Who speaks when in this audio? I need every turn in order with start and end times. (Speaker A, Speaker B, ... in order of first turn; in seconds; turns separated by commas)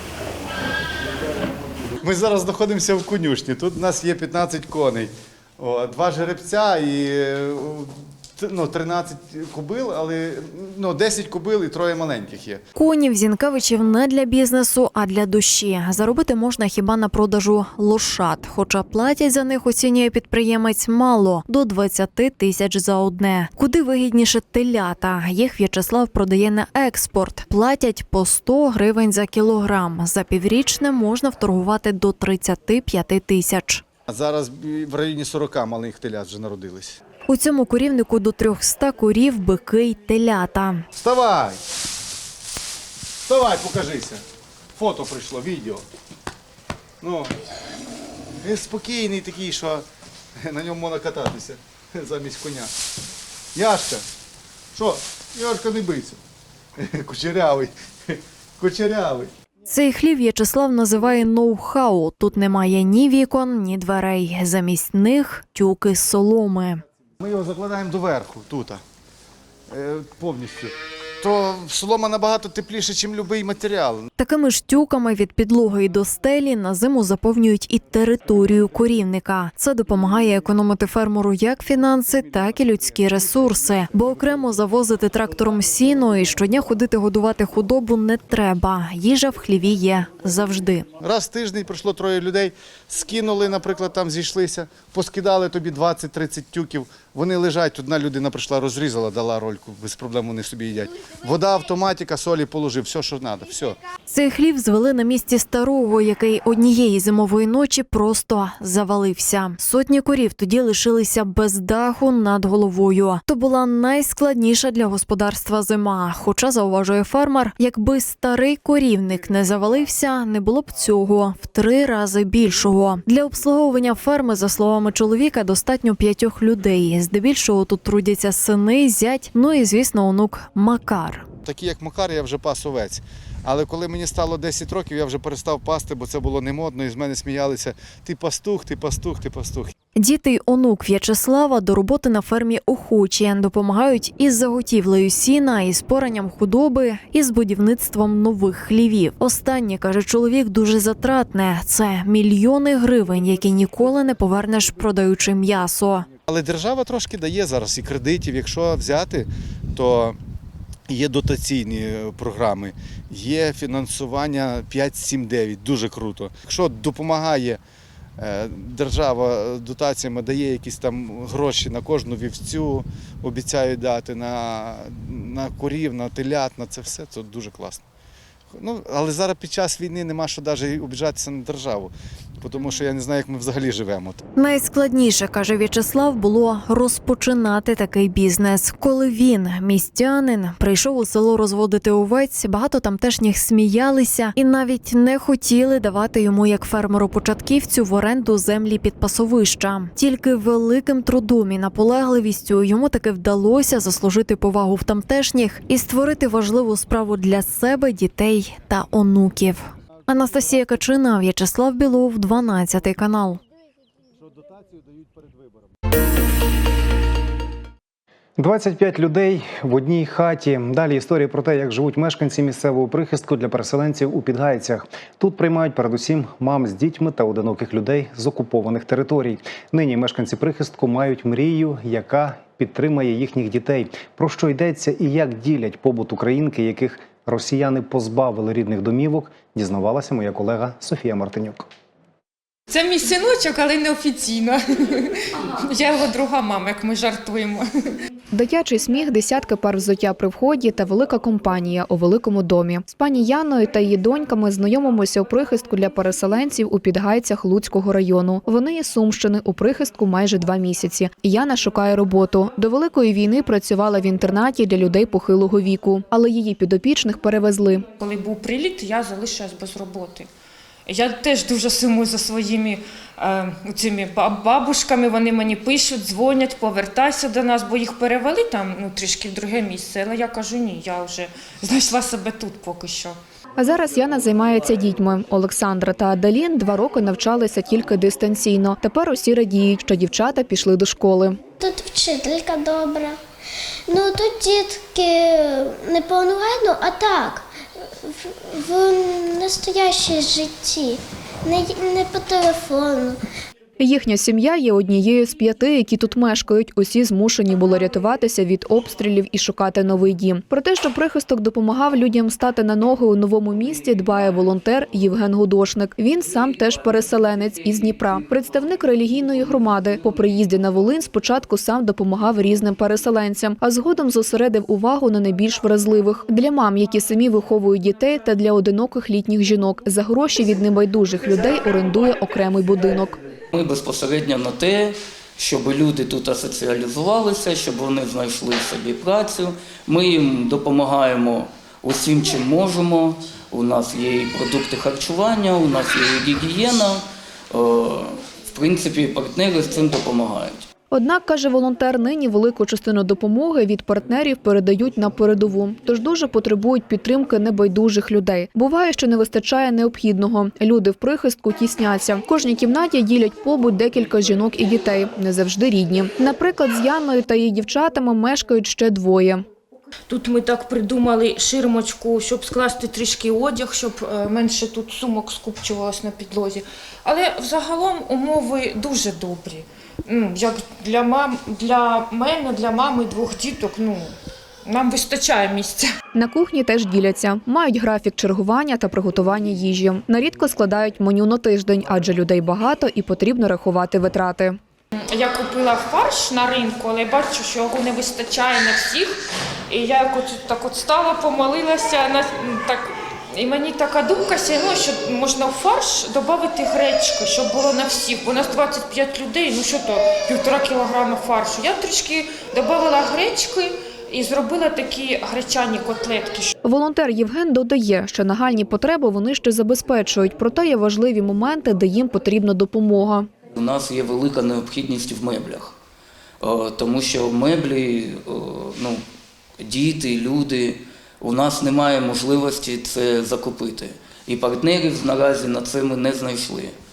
Speaker A: 2.0-12.6, Speaker B: 12.8-33.8, Speaker A: 34.1-37.0, Speaker B: 37.3-40.8, Speaker A: 41.0-41.6, Speaker A: 43.2-44.2, Speaker A: 44.8-45.8, Speaker A: 47.0-47.3, Speaker A: 48.4-49.8, Speaker A: 50.4-52.7, Speaker A: 53.5-54.0, Speaker A: 54.7-56.2, Speaker A: 56.8-59.3, Speaker B: 59.7-66.8, Speaker A: 67.2-68.8, Speaker A: 69.7-74.1, Speaker B: 74.2-90.8, Speaker A: 91.0-103.8, Speaker B: 104.1-131.2, Speaker A: 131.4-139.7, Speaker B: 140.0-156.1, Speaker A: 156.3-160.2, Speaker A: 160.9-167.6, Speaker A: 168.2-177.8, Speaker A: 178.6-184.2, Speaker B: 184.4-213.4, Speaker A: 214.4-215.4, Speaker C: 218.4-241.7, Speaker D: 242.7-247.7, Speaker E: 248.3-267.9, Speaker D: 268.0-270.3, Speaker D: 270.9-283.1, Speaker E: 283.6-291.4, Speaker F: 291.6-293.2, Speaker F: 293.9-297.5, Speaker F: 298.0-303.2, Speaker E: 303.8-333.2, Speaker G: 333.5-350.6, Speaker E: 350.9-369.4, Speaker D: 370.1-384.1, Speaker D: 384.6-385.9, Speaker E: 386.1-394.6, Speaker D: 395.1-399.1, Speaker D: 399.7-416.5, Speaker E: 416.6-423.3, Speaker G: 423.6-425.7, Speaker G: 426.4-429.0, Speaker G: 429.6-436.7